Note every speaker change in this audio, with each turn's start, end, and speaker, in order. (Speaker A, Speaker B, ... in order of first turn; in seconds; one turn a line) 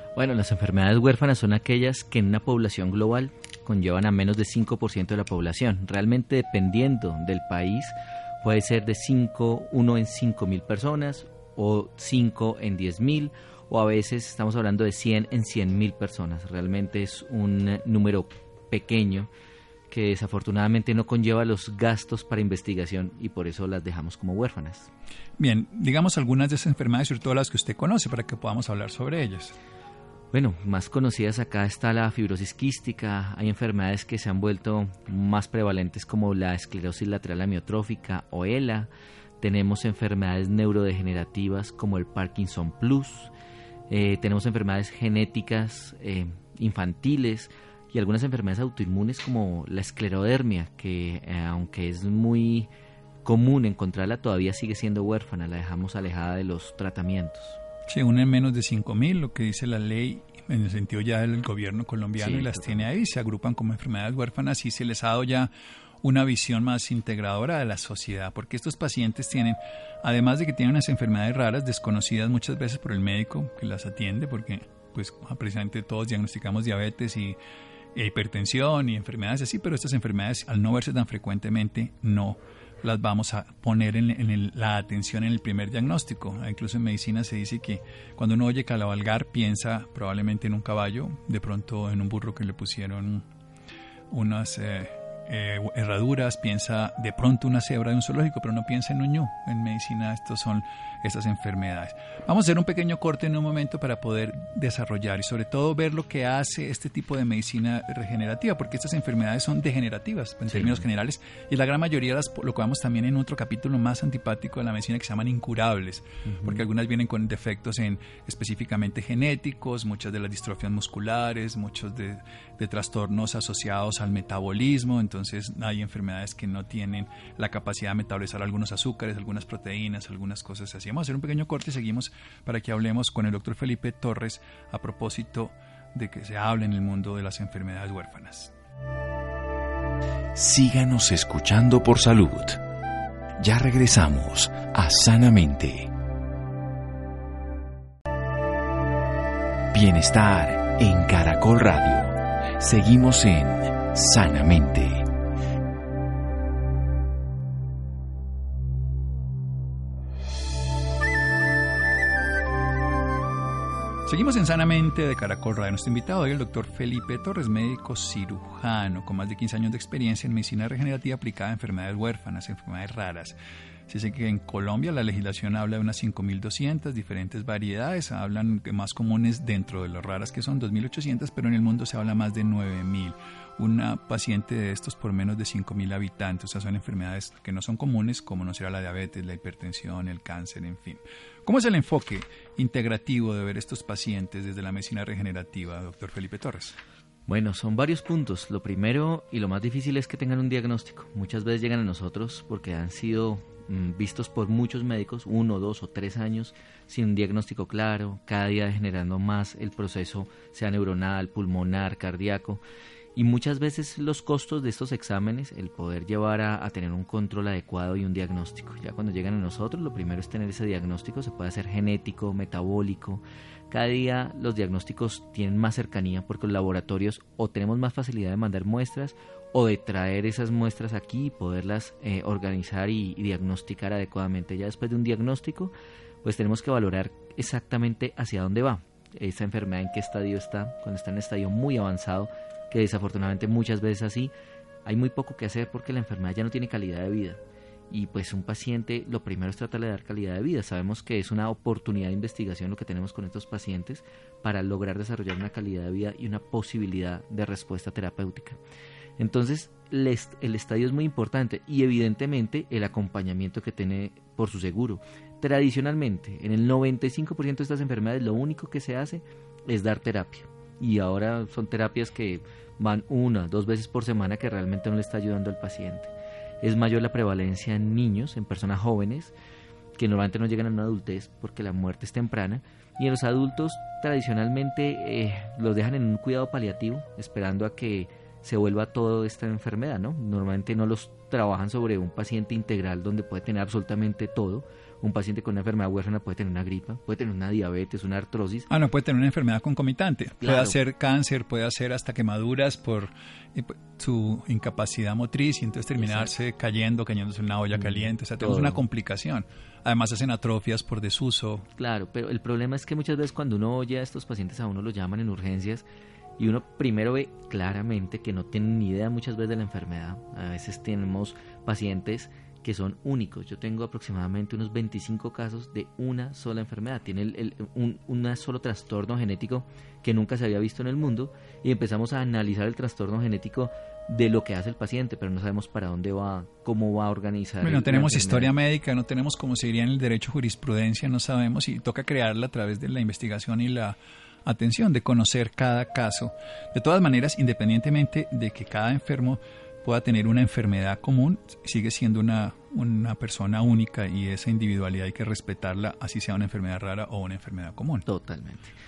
Speaker A: 0.1-19.3
Speaker A: 19.9-24.9
Speaker B: 25.4-29.5
Speaker A: 30.3-38.9
Speaker A: 39.4-43.3
Speaker A: 43.9-52.7
Speaker A: 53.2-57.6
Speaker B: 57.9-65.5
Speaker A: 62.2-62.9
Speaker B: 66.0-77.4
Speaker B: 77.9-93.2
Speaker B: 94.1-138.5
Speaker A: 110.5-110.8
Speaker A: 116.2-116.6
Speaker C: 140.3-142.6
Speaker C: 143.4-145.9
Speaker C: 149.7-155.1
Speaker B: 164.1-173.3
Speaker B: 173.9-196.8
Speaker A: 197.3-212.6
Speaker A: 213.2-235.7
Speaker A: 236.2-244.3
Speaker A: 244.8-258.6
Speaker A: 259.2-279.3
Speaker A: 280.0-298.7
Speaker B: 298.7-311.7
Speaker A: 300.4-300.8
Speaker A: 306.0-306.3
Speaker A: 307.7-308.8
Speaker A: 311.8-315.8
Speaker A: 316.4-338.5
Speaker B: 337.6-358.1
Speaker A: 358.1-358.7